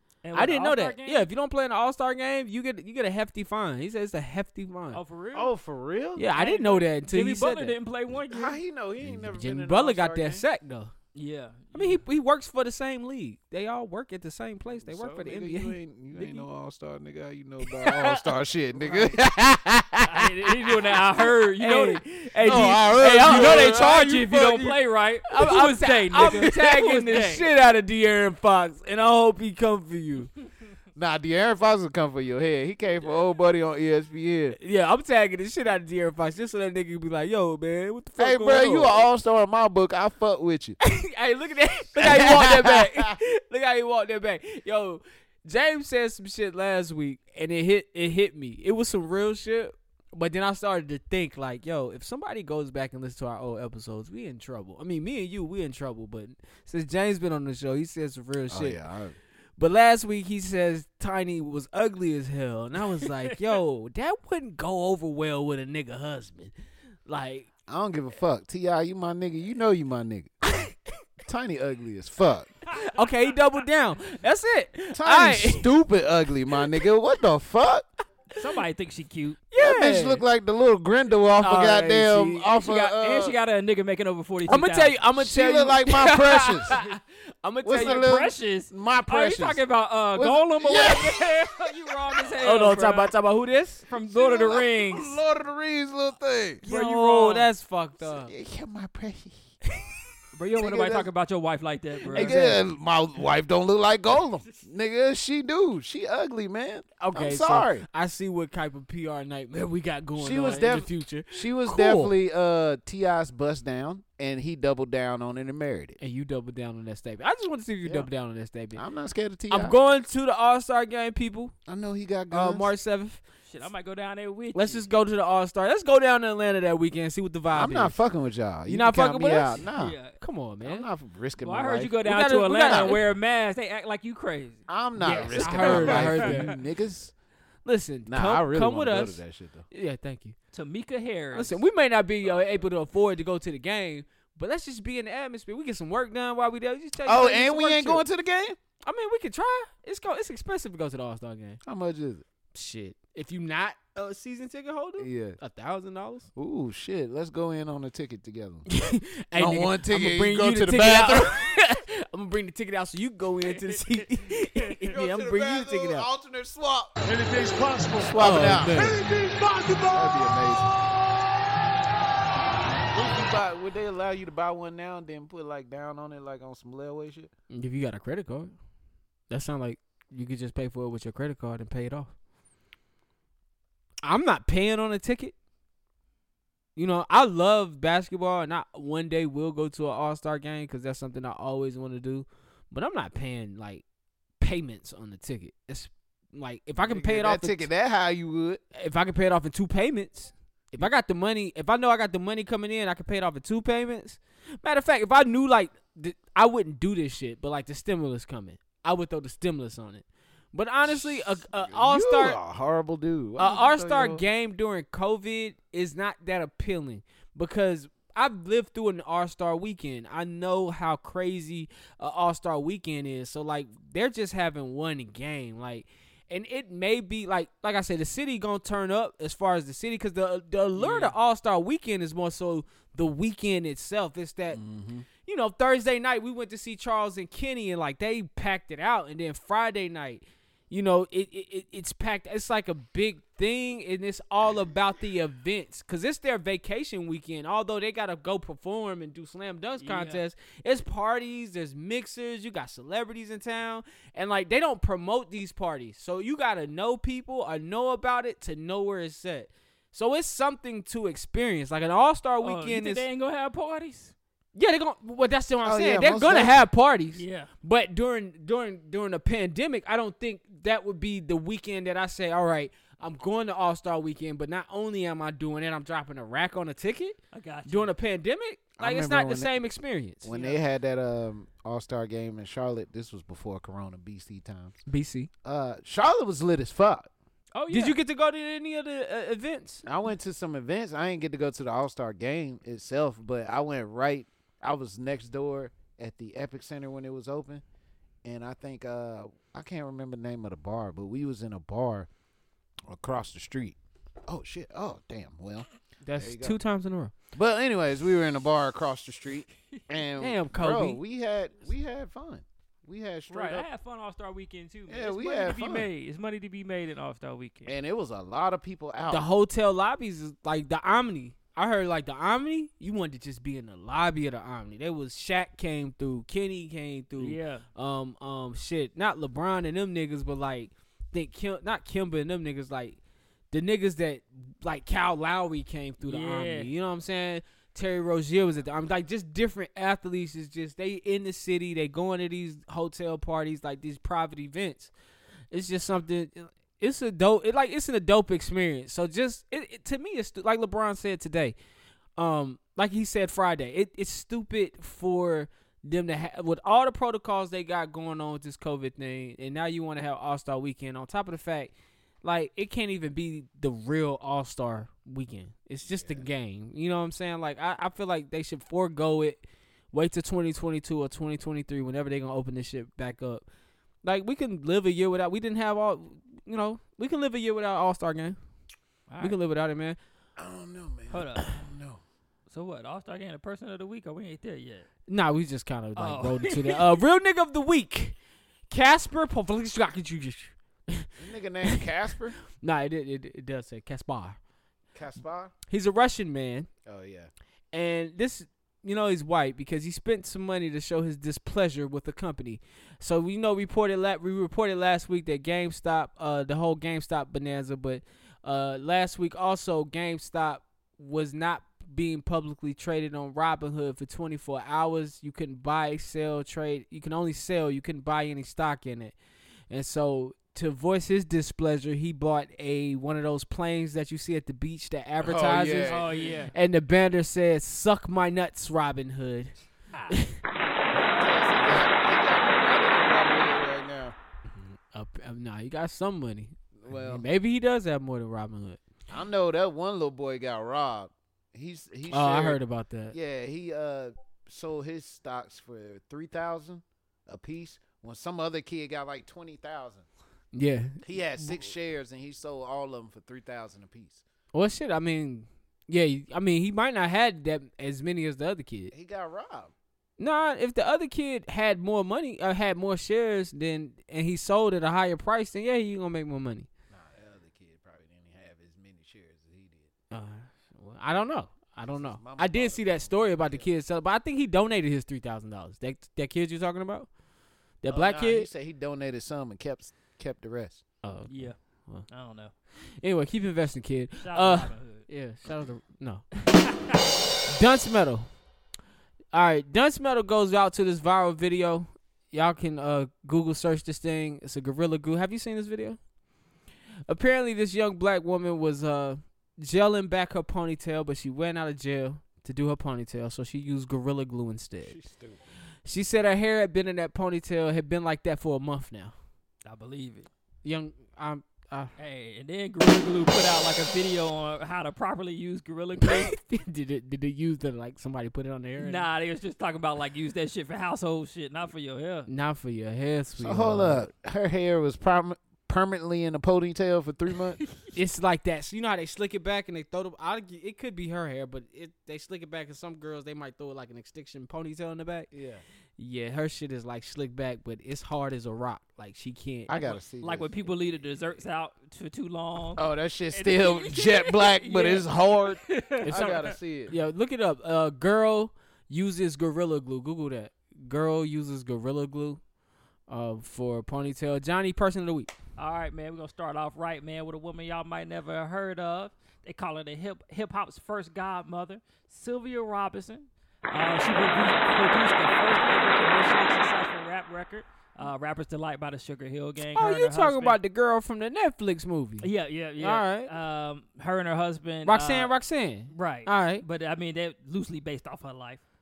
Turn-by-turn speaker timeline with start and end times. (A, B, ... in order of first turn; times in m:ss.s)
0:00.2-0:01.3 A
0:00.3-0:05.0 B
0:04.9-0:05.5 A
0:05.3-0:06.3 C
0:06.2-0:07.8 B
0:06.3-0:08.6 A
0:08.2-0:10.4 C
0:09.0-0:10.9 B
0:11.1-0:12.0 A
0:11.7-0:16.4 B
0:14.9-0:20.2 C
0:17.6-0:18.2 B
0:18.8-0:19.2 B
0:20.0-0:22.0 A
0:21.6-0:23.8 B
0:22.4-0:24.8 C
0:23.1-0:27.5 A
0:25.3-0:30.3 B
0:31.0-0:34.6 C
0:34.6-0:39.0 B
0:38.2-0:40.8 C
0:40.8-0:58.8 B
0:42.0-0:43.2 C
0:58.5-0:59.2 C
0:59.6-1:06.5 B
1:03.1-1:03.4 A
1:07.1-1:07.5 B
1:07.7-1:10.3 C
1:10.5-1:10.7 B
1:11.3-1:12.6 C
1:12.7-1:15.6 B
1:14.9-1:17.9 C
1:18.4-1:19.4 A
1:19.5-1:20.2 B
1:19.6-1:23.4 C
1:21.4-1:22.5 B
1:22.6-1:25.0 A
1:24.5-1:28.1 B
1:25.2-1:26.8 C
1:27.6-1:29.6 C
1:27.7-1:33.1 A
1:30.1-1:31.5 C
1:32.4-1:33.8 B
1:33.9-1:35.2 A
1:33.9-1:36.6 C
1:36.6-1:37.5 A
1:36.6-1:38.3 B
1:38.0-1:39.4 C
1:40.3-1:42.4 A
1:40.6-1:41.1 C
1:42.1-1:42.6 B
1:42.1-1:47.9 C
1:47.0-1:52.1 B
1:50.2-1:56.0 C
1:56.0-1:58.8 B
1:58.8-1:59.8 C
1:59.5-2:01.5 B
2:01.7-2:02.7 C
2:02.3-2:03.2 B
2:03.5-2:04.9 A
2:04.5-2:08.0 B
2:07.5-2:10.0 C
2:08.7-2:09.6 B
2:09.7-2:10.2 A
2:10.2-2:10.9 B
2:10.6-2:12.0 C
2:11.4-2:16.6 A
2:12.0-2:13.0 B
2:12.6-2:13.0 C
2:14.7-2:17.1 C
2:15.0-2:16.6 B
2:17.6-2:19.2 B
2:18.1-2:19.7 C
2:19.7-2:20.4 B
2:20.5-2:21.6 A
2:21.4-2:28.0 B
2:27.0-2:28.6 C
2:28.8-2:31.6 B
2:31.6-2:32.2 C
2:32.5-2:36.3 B
2:35.0-2:35.4 C
2:36.4-2:38.7 C
2:38.7-2:46.1 B
2:39.4-2:41.4 C
2:43.4-2:44.1 A
2:44.9-2:47.0 C
2:47.0-2:48.2 D
2:47.8-2:49.2 C
2:48.2-2:49.0 B
2:48.8-2:50.2 D
2:49.9-2:50.8 C
2:52.9-2:57.3 C
2:57.5-2:58.5 B
2:59.3-3:02.1 B
3:04.0-3:05.4 B
3:06.8-3:13.8 B
3:14.4-3:17.7 B
3:16.8-3:18.6 C
3:18.7-3:32.4 B
3:30.9-3:34.2 C
3:33.4-3:54.6 B
3:50.8-3:51.2 A
3:54.5-3:55.1 C
3:55.2-4:23.1 B
4:09.8-4:10.2 A
4:22.4-4:24.1 A
4:24.6-4:40.3 B
4:25.6-4:26.6 C
4:27.2-4:27.5 A
4:37.3-4:37.9 A
4:38.8-4:39.6 C
4:40.2-4:44.8 C
4:40.3-4:40.6 A
4:44.9-4:45.3 B
4:45.4-4:47.1 C
4:47.5-4:48.0 A
4:47.7-4:49.8 B
4:49.9-4:57.6 C
4:58.2-5:02.1 C
5:02.9-5:05.7 C
5:06.0-5:07.1 B
5:06.2-5:06.6 C
5:07.4-5:13.7 C
5:10.2-5:11.0 B
5:13.3-5:17.7 A
5:14.9-5:15.9 C
5:17.7-5:19.3 C
5:19.1-5:33.0 B
5:27.2-5:27.6 A
5:33.5-5:44.9 B
5:36.0-5:36.7 A
5:45.5-5:51.6 B
5:52.2-6:01.7 B
6:02.2-6:13.5 B
6:05.9-6:06.2 C
6:14.0-6:18.4 B
6:19.1-6:19.4 A
6:19.2-6:20.0 B
6:20.4-6:22.0 C
6:21.1-6:21.5 A
6:22.5-6:24.9 A
6:25.1-6:28.2 B
6:26.0-6:27.0 A
6:28.7-6:31.2 B
6:31.2-6:32.4 C
6:32.5-6:34.4 B
6:34.9-6:35.5 C
6:35.7-6:36.7 B
6:36.9-6:37.3 C
6:37.7-6:59.2 B
6:59.7-7:09.5 B
7:05.2-7:06.4 C
7:05.9-7:06.5 A
7:10.1-7:10.4 B
7:11.2-7:14.2 C
7:14.5-7:18.8 B
7:16.8-7:17.3 C
7:19.1-7:22.6 C
7:22.1-7:23.2 B
7:23.1-7:30.1 C
7:30.5-7:31.6 B
7:31.0-7:34.2 C
7:34.5-7:38.9 B
7:38.9-7:39.7 C
7:40.2-7:46.7 B
7:46.9-7:49.9 C
7:50.1-7:57.1 B
7:51.8-7:53.7 C
7:57.8-7:58.5 B
7:57.9-8:00.8 C
8:01.0-8:02.1 B
8:01.3-8:01.6 A
8:02.1-8:02.5 A
8:03.0-8:06.3 B
8:04.2-8:05.1 A
8:06.5-8:07.0 A
8:07.5-8:08.3 B
8:09.3-8:16.0 B
8:17.1-8:25.0 B
8:24.9-8:25.4 C
8:25.9-8:29.1 B
8:29.6-8:30.3 A
8:30.6-8:31.9 B
8:32.0-8:36.4 A
8:36.0-8:39.1 B
8:38.8-8:42.3 A
8:42.3-8:44.1 B
8:43.4-8:47.6 C
8:47.9-8:55.3 B
8:55.3-8:55.6 C
8:56.0-8:59.7 B
8:59.7-9:00.6 C
8:59.8-9:06.6 A
9:02.8-9:07.0 C
9:06.0-9:12.4 B
9:13.1-9:15.3 B
9:15.6-9:30.6 A
9:29.7-9:33.3 B
9:32.2-9:35.3 A
9:34.8-9:36.6 B
9:35.9-9:38.6 A